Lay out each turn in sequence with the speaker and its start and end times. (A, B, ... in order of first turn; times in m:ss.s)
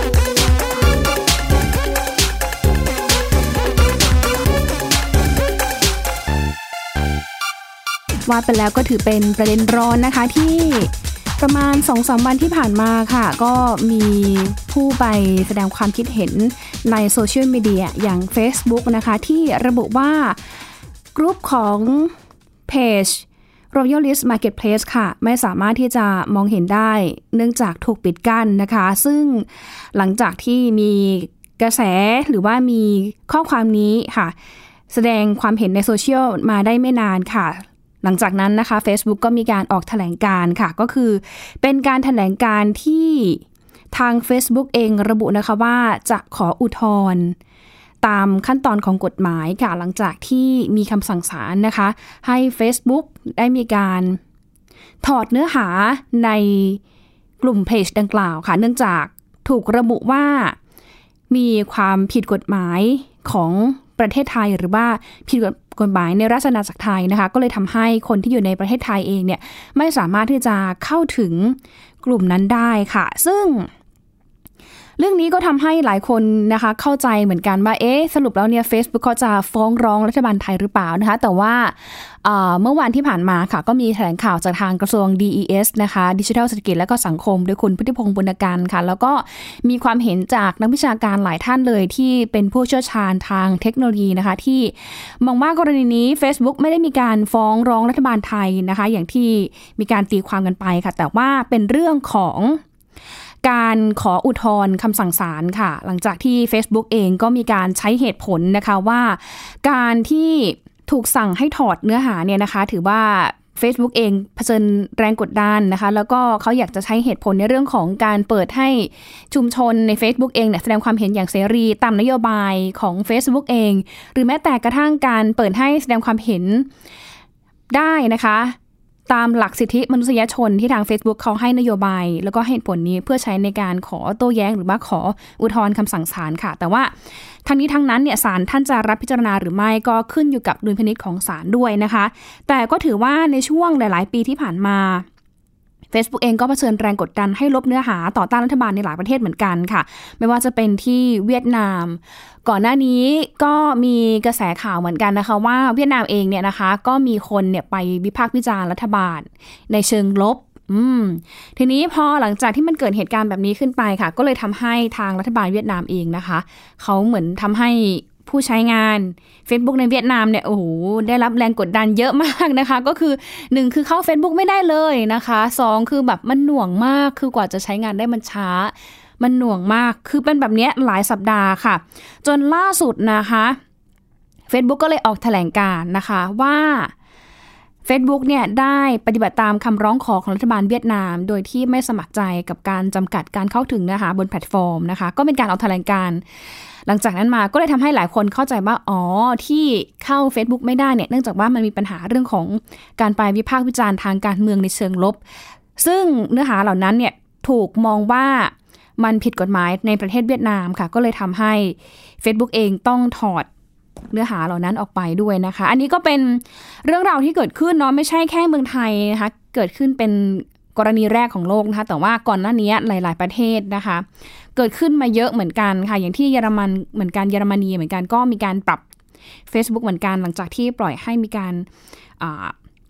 0:08.2-0:20.6 A
0:21.1-0:22.1 A
0:22.7-0:34.3 A
0:34.9-0:47.4 A
0:48.0-0:54.2 A
0:55.0-0:56.8 A
0:57.4-1:00.6 A
1:01.3-1:13.7 A
1:15.0-1:42.6 A
1:43.4-2:06.7 A
2:07.7-2:08.6 A
2:09.1-2:16.9 A
2:17.4-2:25.0 A
2:25.9-3:03.6 A
3:04.5-3:06.9 A
3:07.8-3:16.2 A
3:16.8-3:25.2 A
3:25.8-3:33.5 A
3:34.1-3:48.8 A
3:49.5-3:51.7 A
3:52.2-3:52.5 A